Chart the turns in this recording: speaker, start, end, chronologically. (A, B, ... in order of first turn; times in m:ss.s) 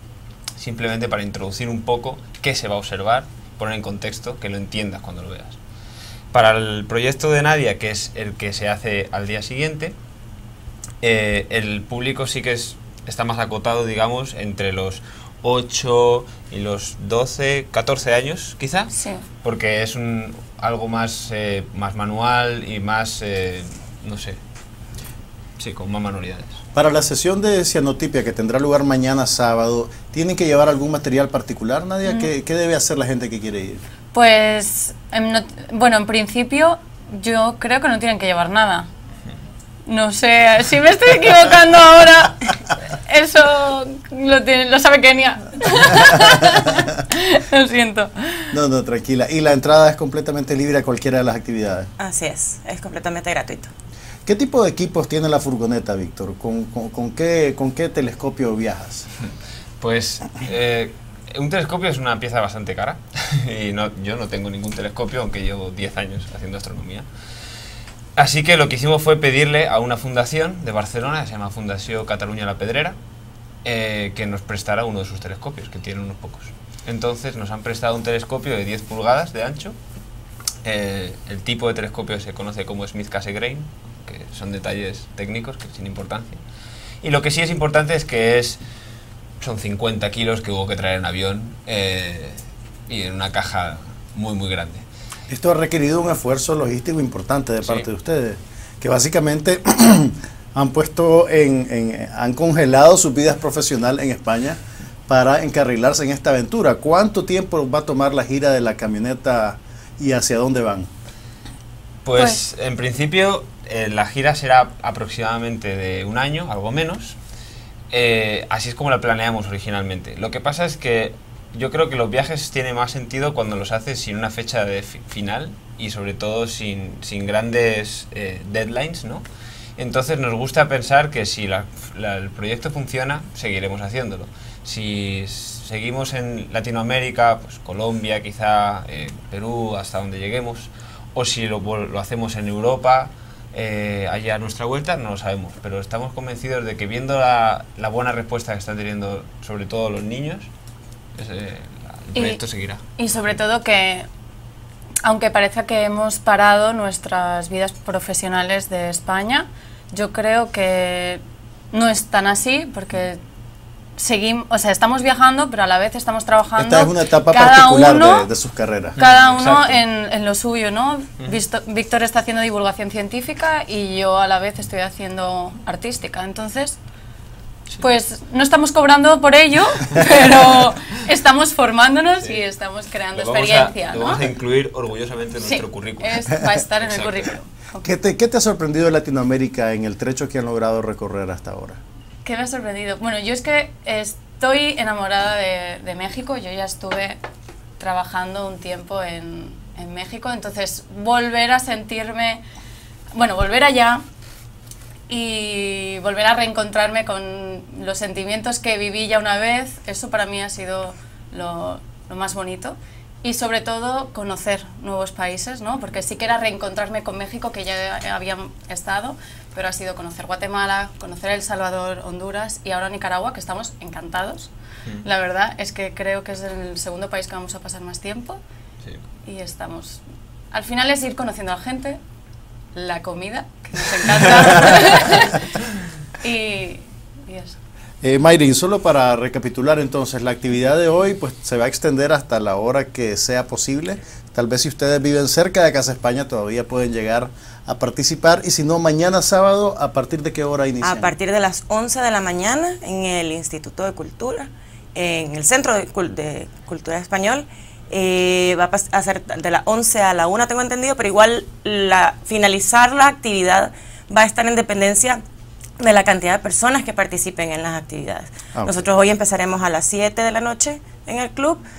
0:00.6-0:05.6 A
0:06.3-0:09.9 A
0:11.0-0:18.9 A
0:18.9-0:19.2 B
0:19.4-0:24.4 A
0:25.6-0:26.6 A
0:26.7-0:33.8 C
0:34.1-0:38.9 B
0:39.9-0:48.5 B
0:48.5-0:51.9 C
0:52.0-0:53.7 D
0:54.2-0:59.1 C
0:59.8-1:07.1 A
1:08.2-1:13.0 A
1:13.6-1:19.8 A
1:20.6-1:26.4 A
1:27.0-1:28.6 A
1:29.4-1:34.8 A
1:35.3-1:50.9 C
1:52.0-1:57.2 A
1:57.9-2:09.2 A
2:09.8-2:30.5 A
2:31.2-2:32.8 A
2:32.1-2:32.4 B
2:33.0-2:34.0 B
2:35.0-2:41.2 B
2:41.7-2:43.2 B
2:44.0-2:48.3 B
2:46.6-2:49.0 C
2:49.0-2:49.8 A
2:49.0-2:56.8 B
2:57.8-3:04.2 B
2:59.9-3:00.4 A
3:03.1-3:07.3 A
3:05.4-3:07.8 B
3:07.8-3:11.8 C
3:12.2-3:17.2 B
3:17.8-3:22.4 B
3:23.1-3:24.0 B
3:25.1-3:48.4 B
3:49.2-3:50.0 B
3:50.5-3:52.0 B
3:52.7-3:57.6 B
3:58.0-4:11.1 C
4:10.8-4:25.2 D
4:25.8-4:31.6 D
4:28.5-4:28.8 C